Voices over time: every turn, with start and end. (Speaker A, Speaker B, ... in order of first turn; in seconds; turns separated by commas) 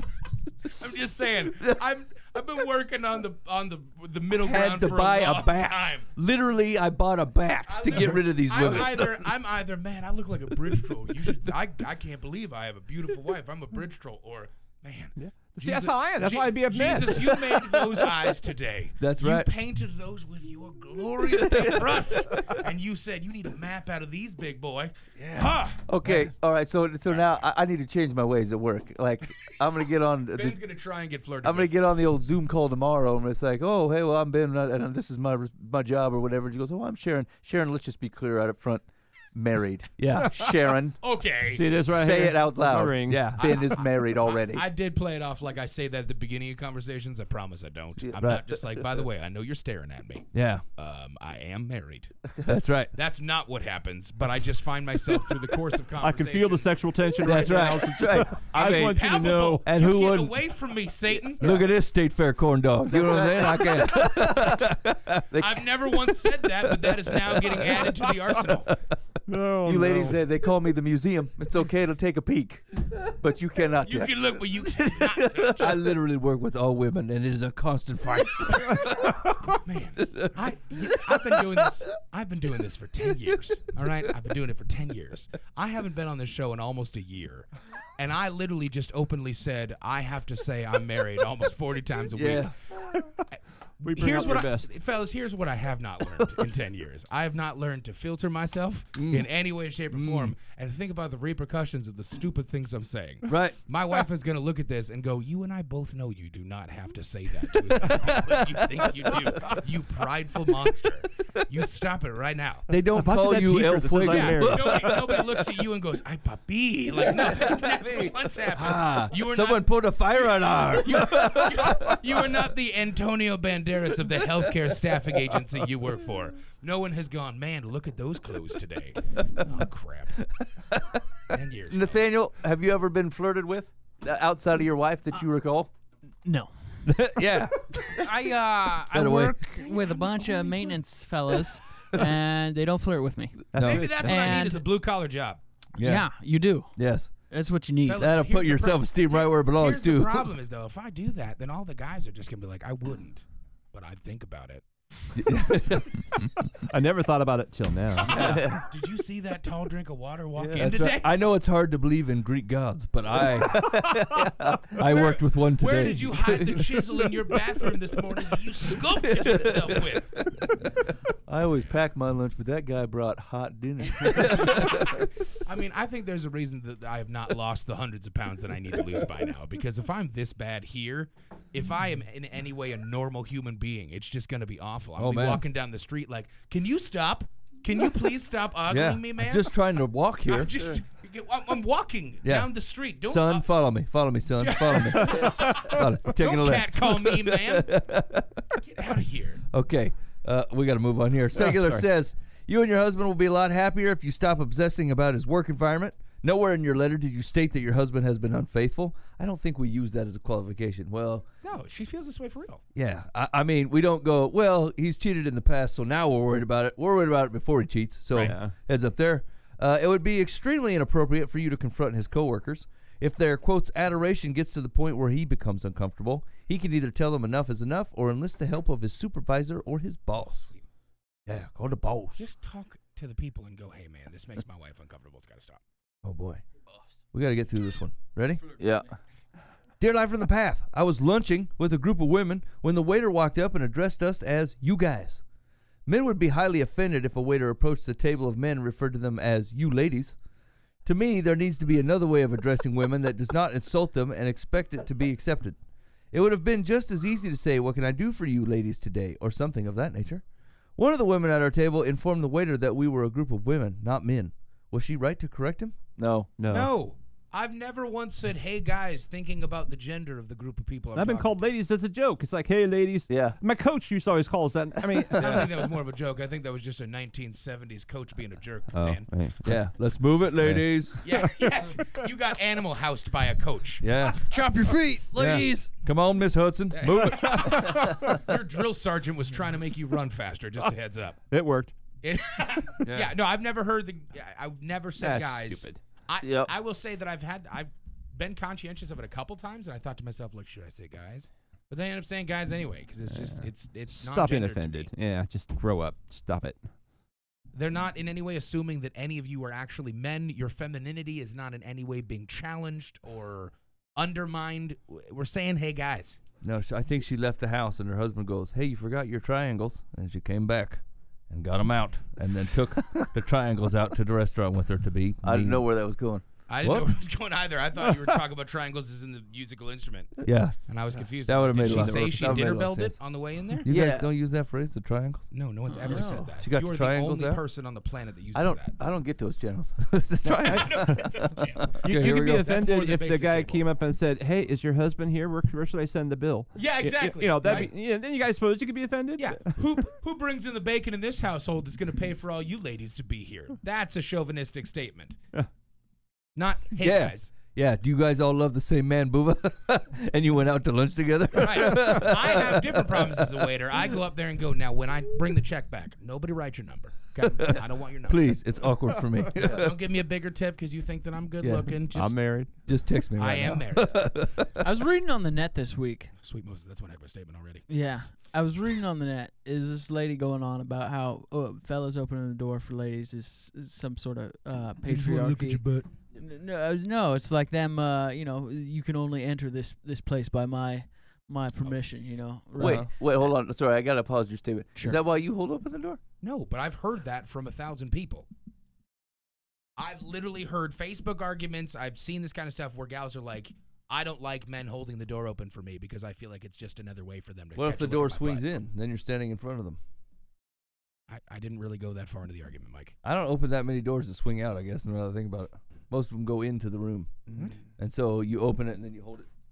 Speaker A: 0.7-6.1, Speaker B: 4.5-9.0, Speaker A: 7.7-26.2, Speaker C: 7.9-9.2, Speaker D: 15.2-17.6, Speaker B: 19.0-19.5, Speaker B: 25.2-25.5, Speaker C: 25.9-30.6, Speaker A: 27.1-27.4, Speaker A: 30.3-31.8, Speaker C: 31.4-41.0, Speaker B: 40.0-40.4, Speaker A: 41.0-41.7, Speaker D: 41.5-43.4, Speaker C: 41.8-44.6, Speaker B: 43.0-43.7, Speaker A: 43.4-52.1, Speaker B: 50.3-50.6, Speaker B: 52.5-52.9, Speaker A: 53.0-56.7, Speaker D: 56.0-59.7, Speaker B: 57.2-60.4, Speaker C: 57.4-58.4, Speaker A: 58.5-61.5, Speaker C: 61.4-61.7, Speaker B: 61.4-65.3, Speaker C: 62.9-64.5, Speaker C: 65.3-65.7, Speaker A: 65.3-68.8, Speaker B: 66.6-67.9, Speaker D: 69.3-70.2, Speaker C: 69.6-75.7, Speaker A: 73.8-75.8, Speaker B: 75.6-79.2, Speaker A: 79.6-92.5, Speaker B: 80.0-80.4, Speaker B: 92.2-92.5, Speaker A: 93.3-112.7, Speaker D: 93.8-94.7, Speaker B: 99.0-99.3, Speaker B: 99.9-100.3, Speaker B: 103.3-103.6, Speaker B: 107.8-108.6, Speaker B: 112.7-115.3, Speaker D: 112.9-115.0, Speaker A: 114.0-130.2, Speaker B: 117.1-122.0, Speaker B: 130.2-131.0, Speaker A: 131.3-132.1, Speaker C: 131.7-135.7, Speaker E: 136.2-136.5, Speaker B: 136.9-138.0, Speaker E: 137.8-144.6, Speaker B: 138.8-139.4, Speaker A: 139.6-140.7, Speaker C: 143.5-144.4, Speaker B: 143.6-144.0, Speaker A: 143.6-145.4, Speaker B: 145.8-146.1, Speaker E: 145.8-146.7, Speaker B: 146.8-147.1, Speaker E: 147.3-148.1, Speaker A: 147.9-154.7, Speaker B: 148.0-150.3, Speaker B: 155.1-156.0, Speaker D: 156.6-158.4, Speaker A: 158.1-161.2, Speaker B: 158.1-158.5, Speaker C: 158.2-158.7, Speaker C: 160.4-160.7, Speaker B: 160.6-163.6, Speaker C: 163.4-164.7, Speaker B: 164.7-166.7, Speaker A: 164.8-170.2, Speaker B: 169.1-170.4, Speaker C: 171.3-175.0, Speaker B: 174.1-174.8, Speaker A: 174.2-189.5, Speaker B: 185.0-185.4, Speaker B: 188.7-190.6, Speaker A: 190.3-193.5, Speaker B: 192.2-192.5, Speaker B: 193.1-198.6, Speaker A: 194.4-197.8, Speaker A: 198.6-199.4, Speaker B: 199.5-211.2, Speaker D: 201.3-201.8, Speaker A: 211.4-212.6, Speaker B: 212.7-230.5, Speaker D: 218.2-218.5, Speaker B: 231.3-232.2, Speaker A: 232.2-235.6, Speaker B: 236.0-236.4, Speaker B: 237.1-238.4, Speaker C: 238.6-238.9, Speaker B: 239.8-245.2, Speaker B: 245.9-250.2, Speaker B: 250.8-255.6, Speaker B: 256.1-260.2, Speaker B: 260.8-265.8, Speaker C: 266.0-266.3, Speaker D: 266.4-266.7, Speaker A: 266.5-271.4, Speaker D: 270.9-275.5, Speaker C: 273.1-273.4, Speaker C: 274.9-275.4, Speaker A: 275.2-279.1, Speaker D: 278.7-279.5, Speaker B: 279.4-281.0, Speaker D: 280.4-282.0, Speaker A: 281.0-283.9, Speaker B: 283.8-284.3, Speaker E: 284.2-285.7, Speaker B: 285.2-287.8, Speaker A: 286.7-291.2, Speaker D: 287.3-288.2, Speaker D: 291.3-291.7, Speaker A: 292.0-304.9, Speaker B: 292.9-293.1, Speaker D: 295.0-295.8, Speaker C: 296.2-296.5, Speaker D: 303.1-306.6, Speaker A: 307.5-316.2, Speaker B: 316.4-325.6, Speaker C: 325.2-326.2, Speaker A: 326.5-333.7, Speaker B: 326.6-326.9, Speaker D: 327.8-328.1, Speaker B: 330.2-330.6, Speaker B: 331.3-333.0, Speaker C: 331.6-332.5, Speaker B: 333.6-335.3, Speaker C: 333.7-334.1, Speaker A: 335.3-338.9, Speaker B: 335.9-337.4, Speaker E: 335.9-336.2, Speaker C: 338.4-339.9, Speaker B: 339.8-341.1, Speaker A: 340.4-343.7, Speaker D: 340.6-340.9, Speaker D: 341.8-349.6, Speaker B: 341.9-342.5, Speaker A: 346.6-347.7, Speaker A: 349.2-355.2, Speaker A: 356.4-357.4, Speaker B: 356.8-363.0, Speaker A: 361.4-368.4, Speaker B: 368.1-369.7, Speaker A: 369.4-372.2, Speaker B: 371.4-371.7, Speaker D: 371.9-372.5, Speaker B: 372.6-374.6, Speaker A: 373.2-374.1, Speaker E: 374.6-376.1, Speaker A: 376.2-377.7, Speaker E: 377.7-385.6, Speaker A: 384.9-385.9, Speaker E: 386.1-392.9, Speaker B: 392.6-392.9, Speaker C: 392.6-396.0, Speaker A: 396.2-398.3, Speaker A: 399.8-408.5, Speaker B: 407.6-409.8, Speaker A: 411.1-412.9, Speaker B: 413.0-417.1, Speaker B: 417.8-419.3